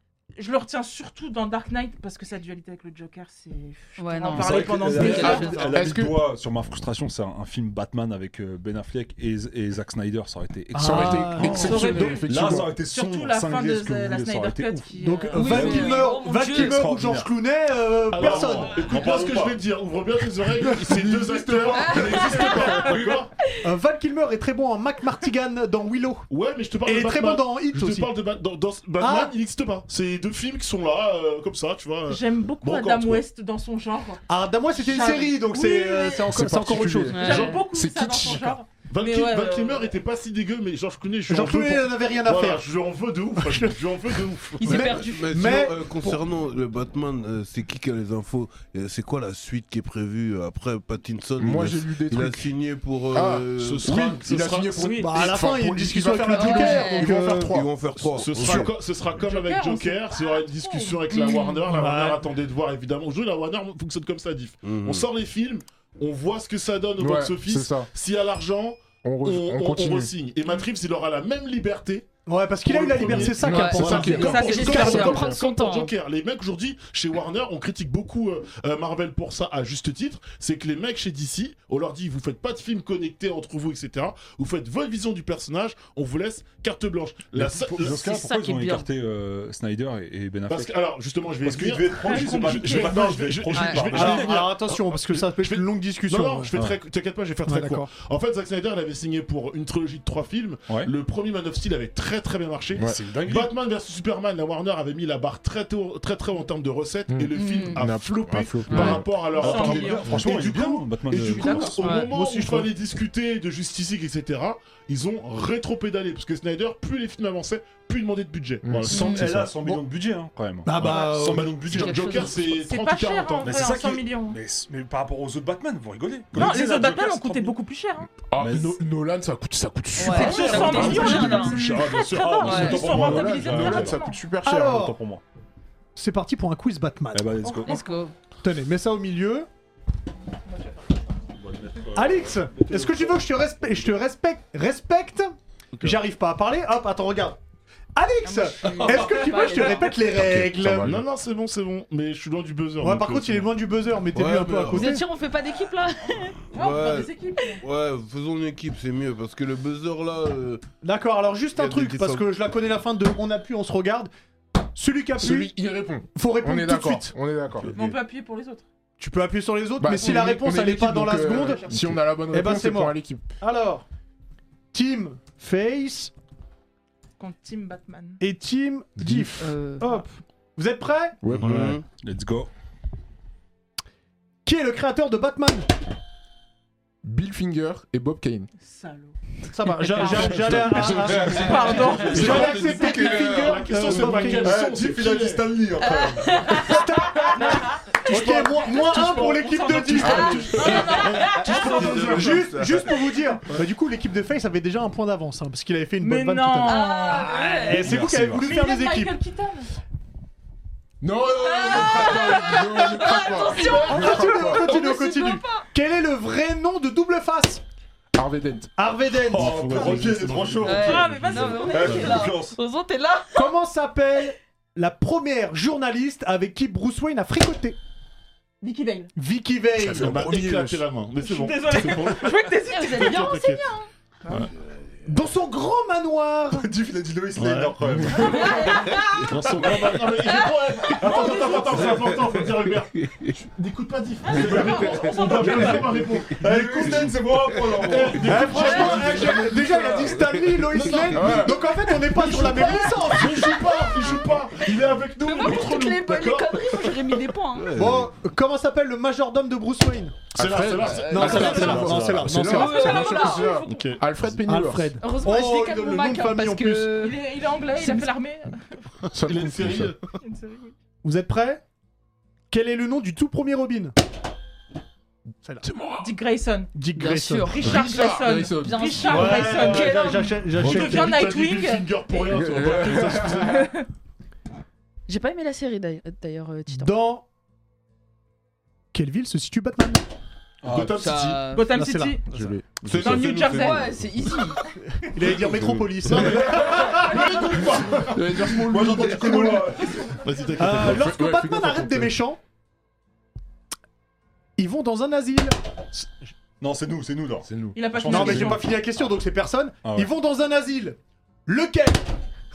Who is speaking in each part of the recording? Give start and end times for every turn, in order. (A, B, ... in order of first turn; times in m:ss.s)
0:00.4-0:05.8 A
0:04.0-0:05.8 B
0:04.3-0:14.9 C
0:05.1-0:06.3 D
0:10.7-0:11.8 E
0:10.8-0:12.8 D
0:11.4-0:16.1 A
0:15.0-0:18.8 E
0:15.3-0:16.8 B
0:15.4-0:17.3 C
0:18.1-0:23.3 F
0:18.2-0:19.6 C
0:20.7-0:23.2 C
0:21.7-0:23.0 B
0:22.3-0:22.9 A
0:23.6-0:26.3 E
0:26.3-0:33.2 F
0:26.8-0:28.1 E
0:29.0-0:29.3 E
0:32.1-0:36.3 A
0:34.3-0:37.4 E
0:36.3-0:38.6 D
0:37.1-0:37.6 B
0:37.1-0:39.9 A
0:37.2-0:37.6 F
0:38.9-0:44.9 F
0:41.3-0:42.6 E
0:43.4-0:43.7 E
0:44.6-0:45.6 B
0:44.6-0:46.2 E
0:44.8-0:53.9 G
0:51.4-0:52.5 D
0:53.1-0:58.7 D
0:53.6-0:54.7 F
0:54.7-0:55.1 A
0:55.0-0:57.5 E
0:56.2-0:57.3 B
0:57.4-0:58.7 G
0:58.2-1:12.1 F
0:59.1-1:01.4 A
1:01.1-1:01.6 B
1:01.7-1:02.2 E
1:04.6-1:05.1 G
1:07.0-1:07.9 D
1:09.0-1:10.1 D
1:12.2-1:15.1 E
1:12.6-1:28.0 F
1:13.1-1:15.3 D
1:13.4-1:15.9 B
1:14.0-1:15.4 A
1:27.3-1:30.7 C
1:27.8-1:28.9 B
1:30.5-1:59.5 F
1:31.4-1:34.6 C
1:32.0-1:33.2 A
1:33.5-1:34.2 B
1:33.9-1:36.5 E
1:37.4-1:37.9 E
1:40.7-1:40.9 C
1:42.8-1:43.0 D
1:42.8-1:43.5 C
1:47.1-1:49.1 D
1:47.3-1:47.8 B
1:48.7-1:49.4 B
1:48.7-1:51.8 C
1:48.7-1:50.6 A
1:51.3-1:52.2 B
1:51.3-1:51.8 A
1:52.2-1:52.7 E
1:58.6-1:59.2 D
1:58.9-1:59.2 B
1:59.0-2:02.2 C
1:59.2-1:59.8 E
2:00.6-2:02.5 E
2:00.8-2:03.7 F
2:01.9-2:02.4 B
2:02.4-2:04.4 A
2:03.4-2:07.5 C
2:06.3-2:08.1 A
2:08.2-2:11.5 D
2:08.4-2:08.8 C
2:10.0-2:13.0 B
2:10.0-2:14.2 A
2:10.1-2:13.0 F
2:12.1-2:14.0 C
2:12.7-2:14.8 D
2:14.4-2:15.0 E
2:14.6-2:15.2 C
2:16.0-2:17.4 E
2:17.1-2:17.8 C
2:17.4-2:18.0 A
2:17.6-2:18.1 B
2:18.4-2:19.5 E
2:20.5-2:20.8 A
2:21.4-2:23.8 C
2:21.9-2:27.4 E
2:28.0-2:30.9 E
2:28.2-2:30.2 B
2:28.7-2:30.9 C
2:30.3-2:31.0 D
2:30.8-2:33.5 F
2:32.8-2:35.0 E
2:34.1-2:34.9 G
2:34.7-2:36.4 B
2:36.5-2:40.6 G
2:36.5-2:37.6 A
2:40.8-2:44.1 E
2:41.5-2:42.3 G
2:44.7-2:45.5 E
2:45.2-2:47.7 D
2:46.1-2:47.1 E
2:47.6-2:48.0 G
2:47.7-2:48.6 A
2:49.0-2:51.7 E
2:49.8-2:53.3 D
2:50.0-2:50.4 B
2:51.0-2:52.0 A
2:52.3-2:53.8 E
2:54.7-2:56.1 E
2:57.2-2:58.2 A
2:58.2-3:01.2 E
2:59.0-2:59.2 D
2:59.4-3:00.0 B
3:01.2-3:01.8 D
3:01.2-3:01.8 G
3:02.0-3:02.5 C
3:04.4-3:05.6 E
3:07.0-3:08.5 D
3:08.6-3:09.2 A
3:09.5-3:14.6 E
3:09.8-3:12.6 A
3:10.0-3:13.3 D
3:11.0-3:12.1 C
3:11.0-3:14.3 G
3:11.1-3:15.5 F
3:14.2-3:16.6 C
3:15.8-3:18.5 B
3:16.5-3:20.6 E
3:17.2-3:22.4 A
3:18.1-3:19.3 F
3:19.9-3:22.7 F
3:20.0-3:21.8 B
3:20.0-3:21.0 D
3:21.5-3:23.1 G
3:22.0-3:29.1 E
3:26.0-3:27.7 A
3:26.6-3:28.0 B
3:27.8-3:28.6 C
3:28.3-3:29.7 A
3:31.0-3:34.8 D
3:31.2-3:35.6 B
3:33.4-3:34.1 F
3:33.8-3:37.6 E
3:38.1-3:38.7 D
3:38.8-3:40.1 E
3:39.1-3:42.6 C
3:39.4-3:40.6 D
3:40.6-3:43.5 B
3:40.6-3:40.8 F
3:40.6-3:42.4 A
3:43.3-3:47.8 E
3:48.6-3:49.1 A
3:49.2-3:50.2 E
3:49.8-3:53.6 F
3:49.9-3:50.8 D
3:51.2-3:54.5 A
3:52.7-3:53.6 B
3:55.0-3:56.7 E
3:56.5-3:58.9 C
3:57.4-4:07.1 F
3:58.2-3:59.3 B
3:59.4-4:00.1 C
4:00.8-4:02.1 C
4:01.1-4:01.7 A
4:02.6-4:03.3 G
4:04.2-4:06.0 A
4:04.3-4:09.0 C
4:06.7-4:07.9 G
4:07.7-4:09.5 F
4:08.2-4:13.6 E
4:08.6-4:09.5 B
4:09.5-4:11.5 G
4:10.8-4:11.8 D
4:12.0-4:17.2 F
4:13.6-4:14.1 B
4:15.1-4:17.8 B
4:17.5-4:18.1 G
4:17.7-4:20.2 E
4:20.3-4:25.0 D
4:20.3-4:21.8 F
4:21.0-4:23.3 E
4:21.3-4:21.7 B
4:21.3-4:22.5 C
4:22.4-4:23.5 B
4:22.6-4:24.0 A
4:23.5-4:24.0 F
4:24.4-4:26.9 E
4:25.0-4:27.2 B
4:27.0-4:28.8 A
4:27.7-4:28.1 B
4:29.1-4:30.0 D
4:29.1-4:30.0 F
4:30.1-4:30.7 A
4:31.0-4:31.6 E
4:32.5-4:33.9 E
4:35.6-4:36.1 D
4:36.0-4:36.7 A
4:36.7-4:37.7 E
4:37.0-4:40.1 B
4:37.4-4:41.9 A
4:37.6-4:39.2 D
4:39.0-4:41.3 E
4:39.4-4:40.0 F
4:40.6-4:43.7 F
4:42.3-4:43.6 D
4:43.4-4:43.8 A
4:45.1-4:46.9 B
4:46.7-4:47.2 E
4:48.9-4:50.0 E
4:50.6-4:51.2 C
4:50.7-4:51.4 F
4:50.9-4:51.7 B
4:51.5-4:52.2 A
4:51.7-4:52.2 E
4:52.3-4:53.4 D
4:52.8-4:54.3 G
4:52.9-4:54.1 A
4:53.4-4:54.6 B
4:55.0-4:58.5 E
4:55.2-4:56.6 G
4:56.0-4:58.6 F
4:56.2-4:57.0 D
4:58.0-4:59.7 D
4:58.6-5:00.2 C
4:59.2-4:59.6 E
5:00.2-5:01.2 F
5:00.6-5:02.4 E
5:00.6-5:02.2 D
5:04.6-5:06.1 E
5:06.6-5:08.8 C
5:07.4-5:07.8 D
5:07.7-5:08.7 A
5:08.0-5:12.0 E
5:09.8-5:10.1 C